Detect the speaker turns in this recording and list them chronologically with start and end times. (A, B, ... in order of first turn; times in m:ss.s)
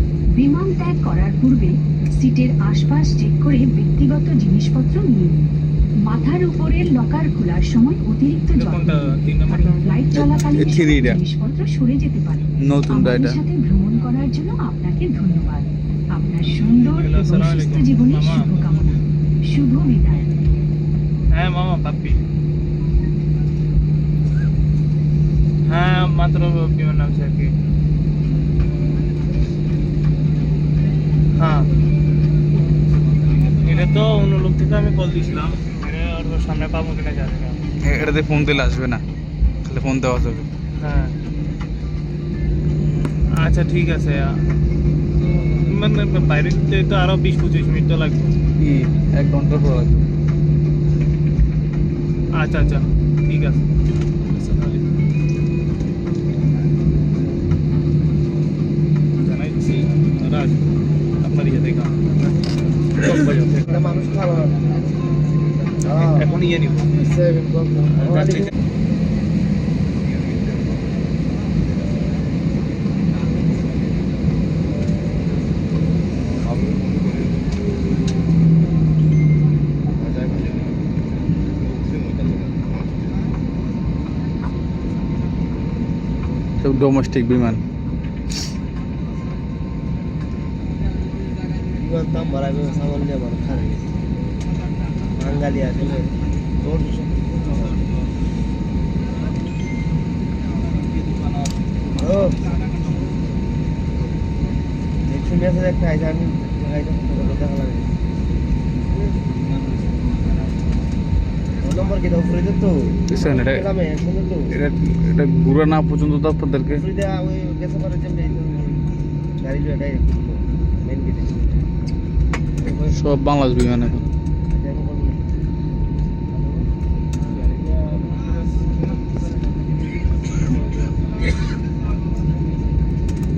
0:00.3-0:09.0 A
0:08.5-0:09.8 B
0:09.5-0:20.3 A
0:10.2-0:11.2 C
0:12.6-0:13.4 C
0:17.0-0:18.5 B
0:21.3-0:22.2 B
0:25.7-0:27.5 B
0:31.4-0:31.7 B
0:33.5-0:37.6 B
0:37.8-0:39.0 C
0:39.6-0:40.5 C
0:40.8-0:41.2 B
0:43.1-0:44.4 B
0:45.6-0:48.4 B
0:48.6-0:50.1 C
0:52.4-0:53.7 B
0:54.2-0:54.9 B
0:59.2-1:00.7 B
1:01.2-1:02.0 B
1:03.0-1:03.7 B
1:03.7-1:04.6 D
1:05.8-1:06.3 D
1:06.0-1:06.9 B
1:07.0-1:08.5 D
1:20.0-1:20.6 D
1:26.6-1:27.6 C
1:31.8-1:33.8 D
1:35.2-1:36.1 D
1:36.6-1:37.8 D
1:42.0-1:42.4 D
1:45.1-1:47.9 D
1:49.6-1:49.8 C
1:51.6-1:54.5 D
1:53.1-1:53.6 C
1:54.5-1:56.8 C
1:56.8-2:01.4 D
2:02.7-2:04.0 C
2:04.5-2:05.2 D
2:06.3-2:06.7 D
2:07.3-2:08.3 D